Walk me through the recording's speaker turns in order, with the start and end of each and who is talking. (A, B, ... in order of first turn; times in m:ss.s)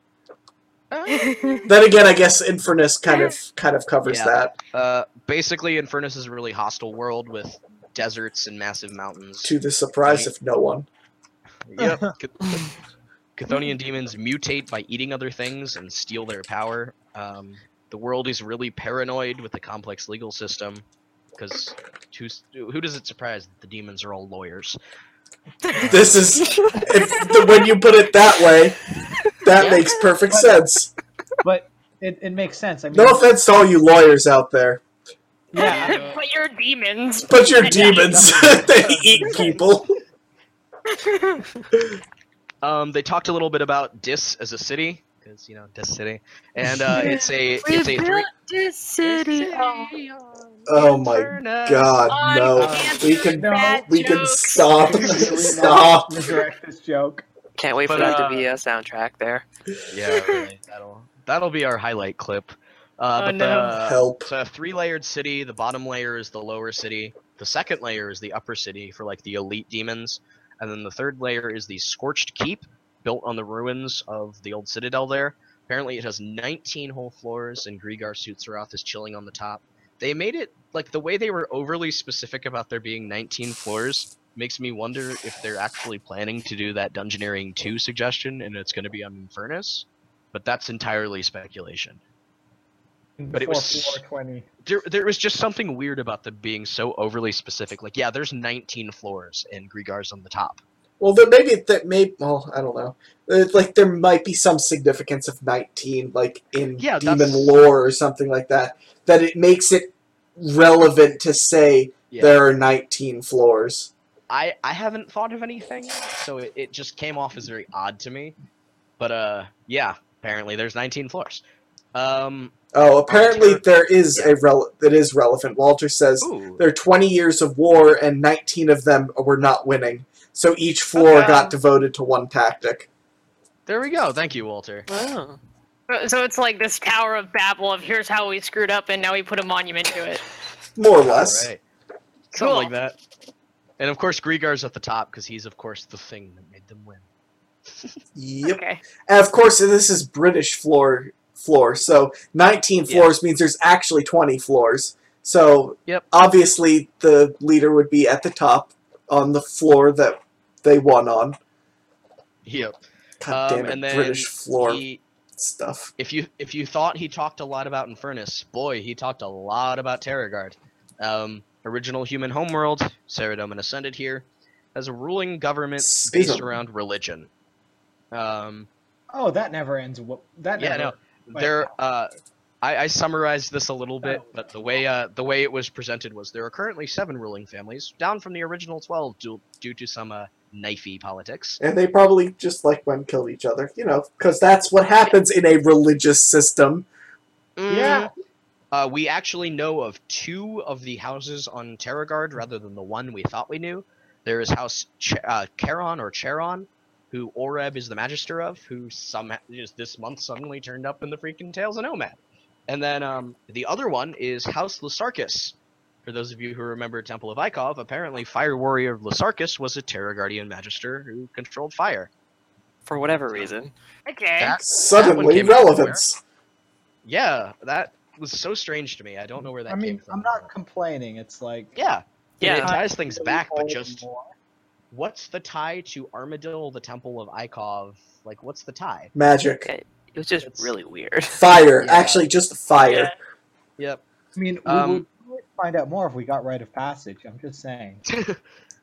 0:00.9-0:01.7 A
0:01.1-0:01.7 B
0:01.7-0:04.6 C
0:03.1-0:03.4 B
0:04.0-0:10.3 A
0:09.4-0:10.9 C
0:11.6-0:12.8 A
0:13.4-0:24.8 A
0:25.8-0:26.4 A
0:25.9-0:28.8 C
0:26.7-0:27.3 D
0:29.4-0:30.9 C
0:29.6-0:29.9 A
0:30.3-0:30.6 E
0:31.4-0:33.2 E
0:32.9-0:34.8 C
0:35.5-0:36.2 E
0:35.5-0:38.4 B
0:35.6-0:36.0 A
0:37.3-0:39.9 C
0:37.7-0:39.7 E
0:40.9-0:41.4 B
0:42.6-0:48.3 A
0:46.9-0:49.9 B
0:47.6-0:49.5 D
0:49.0-0:52.1 A
0:50.7-0:56.3 C
0:52.1-0:55.3 B
0:52.5-0:53.8 E
0:54.8-0:57.2 E
0:57.6-0:59.4 D
0:57.8-0:58.5 A
0:59.9-1:32.0 A
1:03.2-1:03.8 B
1:03.8-1:04.3 C
1:33.2-1:34.5 E
1:33.3-1:34.0 A
1:34.6-1:40.6 A
1:41.0-1:53.9 C
1:46.8-1:47.6 A
1:52.1-1:52.4 A
1:54.3-1:58.4 A
1:59.0-2:01.4 A
2:02.0-2:02.6 A
2:02.7-2:12.9 C
2:03.1-2:04.3 A
2:06.2-2:06.6 A
2:11.0-2:11.6 B
2:13.7-2:14.9 A
2:14.9-2:15.4 D
2:15.9-2:20.2 B
2:20.8-2:21.5 C
2:21.0-2:21.6 A
2:22.3-2:23.0 A
2:22.4-2:22.7 B
2:23.8-2:27.1 A
2:27.7-2:28.0 A
2:28.2-2:41.4 C
2:28.4-2:28.8 B
2:32.9-2:33.1 A
2:42.4-2:42.8 A
2:43.2-2:44.8 C
2:43.3-2:45.0 A
2:45.4-2:45.9 C
2:46.0-2:57.3 A
2:55.8-2:56.5 C
2:58.1-2:58.7 A
2:59.1-3:01.7 E
3:00.6-3:11.6 A
3:11.6-3:16.9 C
3:17.6-3:18.1 A
3:17.7-3:18.1 E
3:18.7-3:42.1 A
3:42.9-3:43.7 D
3:44.1-3:44.6 B
3:44.4-3:46.0 A
3:44.6-3:46.2 C
3:47.0-3:50.5 A
3:49.7-3:51.7 E
3:51.8-3:54.0 A
3:52.4-3:52.7 D
3:52.6-3:54.3 E
3:54.9-3:59.1 A
3:59.2-3:59.7 C
3:59.6-4:01.4 D
4:00.4-4:00.7 A
4:01.3-4:03.1 C
4:01.8-4:02.3 A
4:02.8-4:03.2 B
4:03.8-4:04.0 A
4:04.4-4:08.0 E
4:04.6-4:05.0 A
4:08.1-4:08.4 A